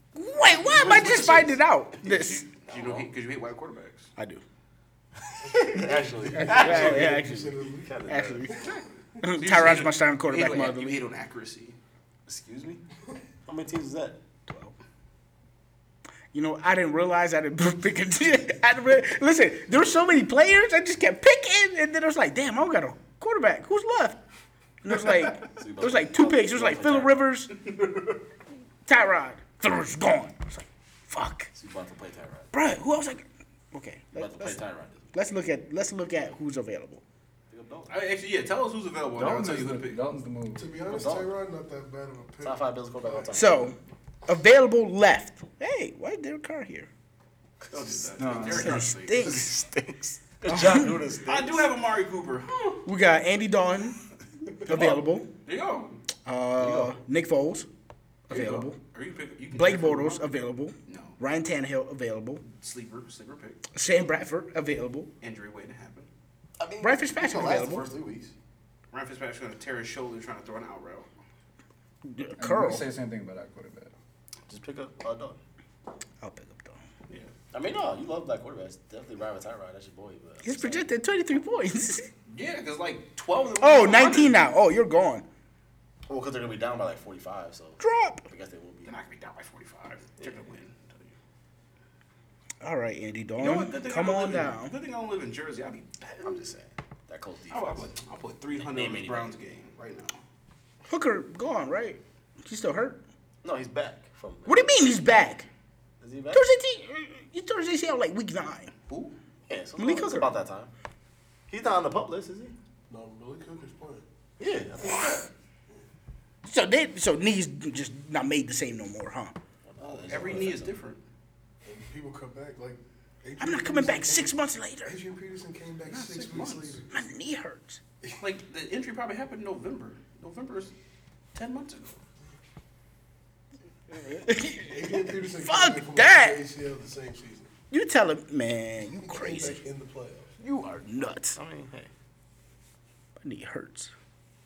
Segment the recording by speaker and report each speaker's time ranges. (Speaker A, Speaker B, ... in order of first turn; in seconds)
Speaker A: 0.1-2.5, 4.2-4.4, 6.3-11.0, 14.5-14.7, 16.3-24.2, 24.8-27.5, 28.9-31.5, 32.5-37.0, 43.3-46.9, 48.5-49.5, 50.5-50.9, 52.8-54.0, 54.6-55.3, 56.2-57.7, 58.3-58.8, 59.5-62.4, 63.7-65.1, 66.8-67.9, 72.0-72.9, 76.2-76.8, 80.4-82.1, 83.6-85.2, 87.8-88.3, 92.6-94.7, 100.9-103.0, 104.5-105.5, 106.3-108.7, 109.8-110.3, 116.4-119.3, 123.4-125.0, 126.9-127.8, 133.9-136.4, 137.7-139.6, 140.4-141.4, 143.2-143.9
Speaker B: 0.7-1.4, 5.4-8.8, 40.5-43.3, 112.9-114.0, 121.6-127.0, 134.5-137.5, 139.0-140.3
Speaker C: 2.0-4.1, 9.3-11.8, 37.9-40.0, 47.7-49.3, 51.2-52.8, 54.6-56.0, 58.3-60.3, 60.8-61.2, 62.5-63.6, 65.2-66.1, 68.9-71.1, 82.3-84.4, 88.8-91.1, 93.4-96.4, 97.5-100.2, 108.9-109.1, 119.8-121.0, 125.9-126.8, 128.2-130.7, 131.3-132.0
Speaker D: 2.7-3.1, 5.4-7.2, 7.8-8.7, 12.3-12.8, 13.4-14.2, 25.5-27.3, 31.5-32.5, 34.1-35.1, 37.5-37.9, 40.9-41.3, 42.4-43.7, 47.7-51.7, 56.6-57.0, 66.6-68.3, 74.5-75.4, 77.5-80.9, 86.1-88.9, 96.2-97.9, 98.5-99.3, 103.4-104.7, 106.0-106.5, 109.5-110.7, 111.5-112.5, 114.4-115.3, 119.6-120.8, 141.3-141.9
Speaker E: 39.1-40.7, 48.2-48.9, 72.4-73.9